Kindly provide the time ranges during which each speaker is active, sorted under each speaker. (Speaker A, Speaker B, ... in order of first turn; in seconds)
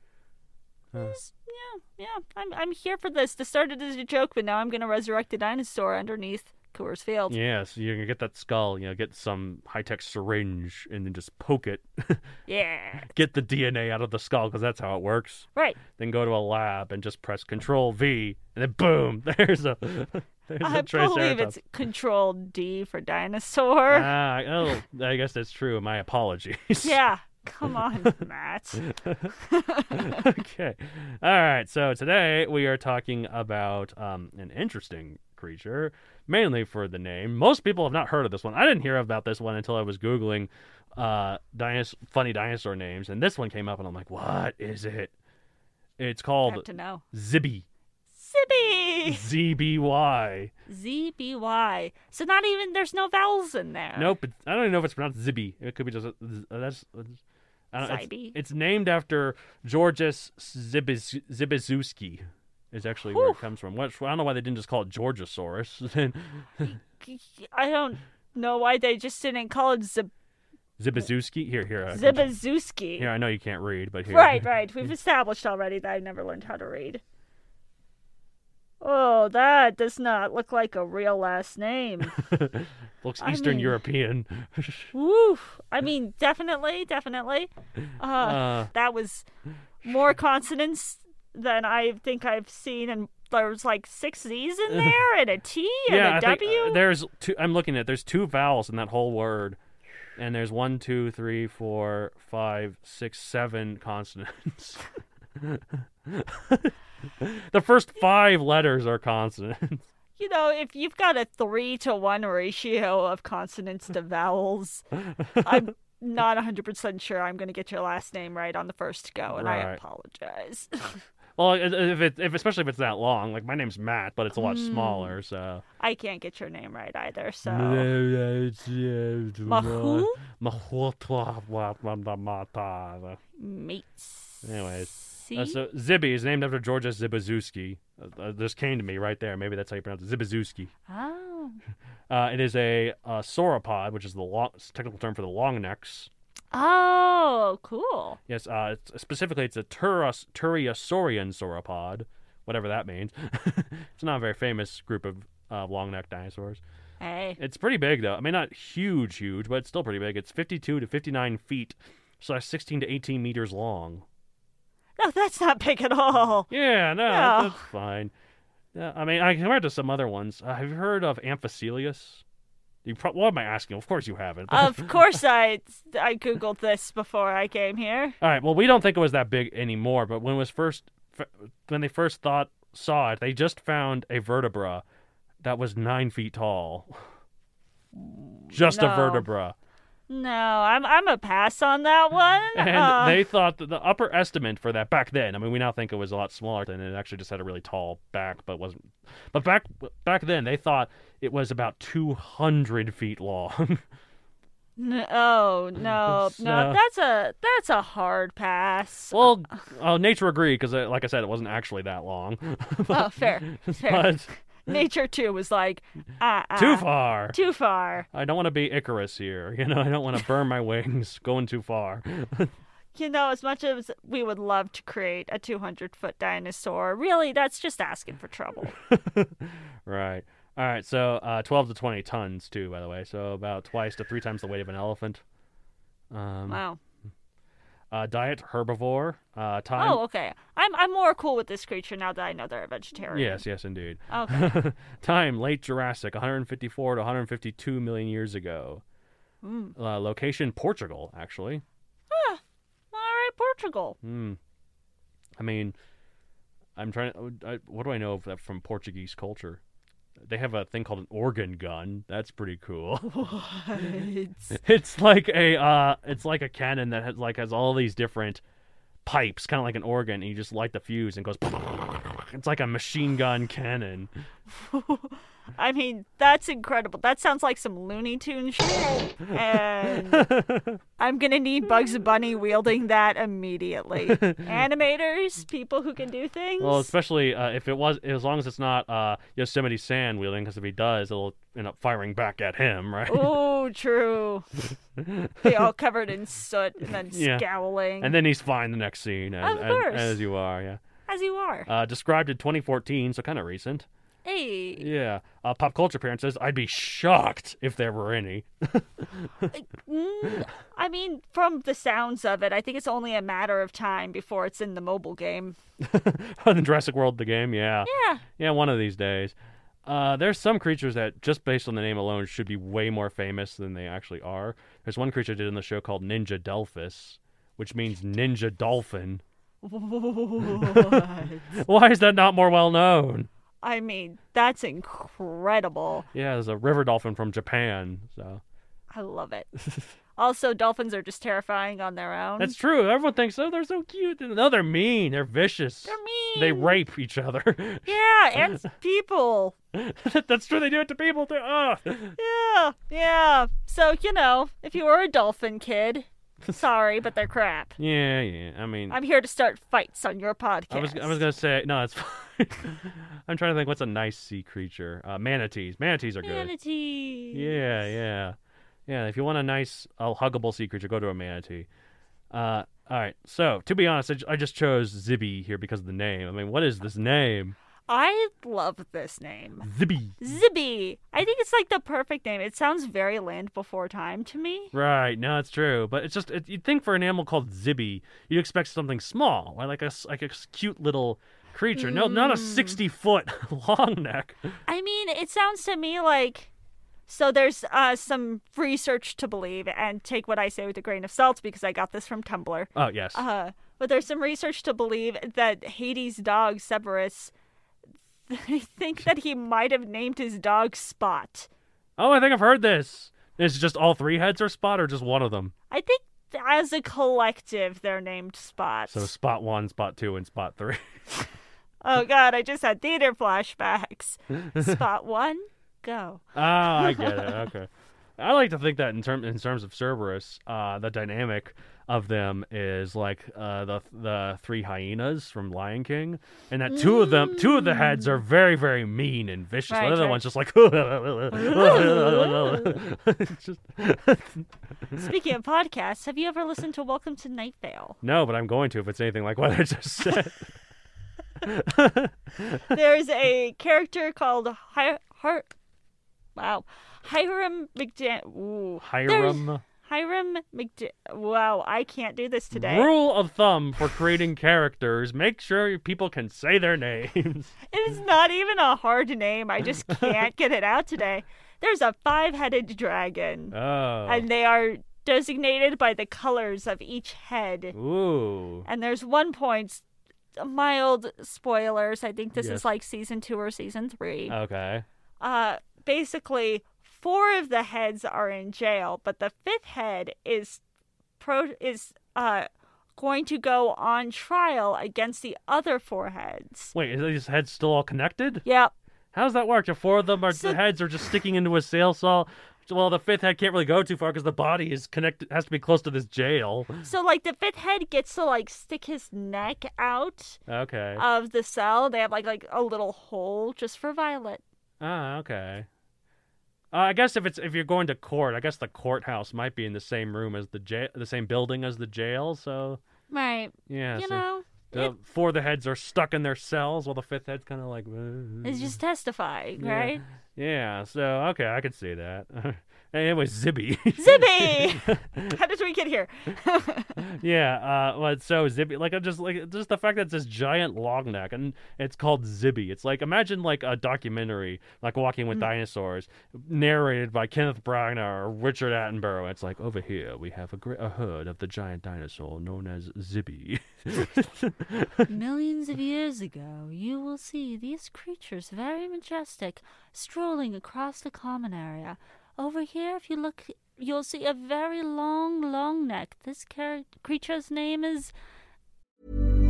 Speaker A: 0.9-7.4, 12.5-13.1, 15.6-15.8, 20.6-24.1, 26.8-28.8, 29.4-30.2, 46.4-47.0, 48.2-49.3, 50.7-54.1, 57.8-58.4, 63.1-63.4, 66.7-70.1, 71.9-73.1, 74.1-77.0, 78.8-82.1, 83.2-83.8, 84.9-89.2, 89.8-96.8, 110.2-114.8, 115.4-121.0, 124.3-125.1, 125.8-127.9, 129.4-130.2, 133.4-135.6, 140.9-141.6, 146.5-148.2, 157.0-157.4, 165.0-166.5, 167.1-167.6, 174.5-178.2, 187.9-189.3, 190.1-193.3, 204.8-209.3, 212.9-218.1, 222.9-228.7, 236.5-236.8, 239.8-243.4, 244.1-244.5, 249.4-249.7, 252.1-252.4, 252.9-253.9, 263.1-264.6, 274.5-280.3, 281.0-286.9, 293.1-294.4, 295.4-298.2, 299.4-300.2, 301.1-301.7, 304.2-304.9, 309.5-315.6, 317.9-318.2, 329.6-331.6, 333.6-336.1, 338.9-339.5, 340.2-342.6, 345.9-346.8, 347.9-349.5, 352.2-357.8, 358.9-361.2, 366.2-367.6, 377.9-379.7, 380.2-384.7, 391.7-392.8, 394.7-396.5, 397.1-407.3, 408.3-411.5, 415.7-419.1, 421.8-427.3, 436.7-438.2, 439.7-440.2, 441.3-442.8, 444.9-448.0, 452.7-455.5, 456.4-462.9, 467.7-477.8, 478.6-479.8, 480.4-484.4, 485.2-490.6, 491.2-496.7, 498.4-498.7, 500.3-500.6, 506.8-510.4, 511.0-514.4, 523.1-524.9, 528.4-530.0, 534.0-537.0, 555.1-568.1
Speaker B: 7.3-12.2, 13.1-21.6, 23.9-27.0, 28.9-29.3, 29.9-45.1, 46.0-47.6, 49.1-50.5, 54.0-57.2, 57.7-66.7, 70.8-72.3, 73.0-74.4, 82.2-84.9, 88.2-88.7, 95.9-99.6, 100.2-104.8, 105.4-109.8, 115.2-115.6, 119.3-119.8, 121.4-125.6, 127.5-133.2, 134.4-140.7, 142.1-146.1, 148.3-156.6, 157.4-164.0, 166.5-168.1, 168.7-172.2, 172.8-175.0, 178.2-184.8, 185.4-186.9, 188.5-189.5, 192.5-203.8, 206.0-206.8, 209.1-214.3, 216.6-217.4, 218.1-222.5, 228.7-235.2, 236.1-236.6, 237.9-240.0, 243.1-248.8, 249.8-251.6, 254.0-254.4, 255.4-255.7, 256.8-259.6, 260.2-263.2, 264.5-268.4, 269.1-274.1, 280.0-280.8, 284.0-284.6, 286.6-293.3, 295.0-295.5, 297.1-297.4, 298.0-300.8, 301.7-303.9, 304.8-309.5, 315.8-319.3, 319.9-329.2, 330.4-333.3, 336.1-338.4, 342.4-347.9, 349.7-352.1, 357.8-359.0, 360.7-366.5, 367.3-368.4, 368.9-371.7, 372.3-377.6, 379.6-380.2, 384.7-394.5, 402.8-403.2, 412.0-415.5, 418.9-420.8, 424.4-424.8, 426.3-445.1, 448.0-450.4, 451.4-452.7, 458.8-459.6, 462.5-467.5, 469.9-470.1, 473.5-474.2, 477.7-478.7, 482.4-482.7, 484.3-484.8, 496.7-498.4, 499.1-506.7, 510.5-511.0, 514.8-515.7, 516.7-522.8, 523.7-528.8, 529.6-535.4, 537.0-555.0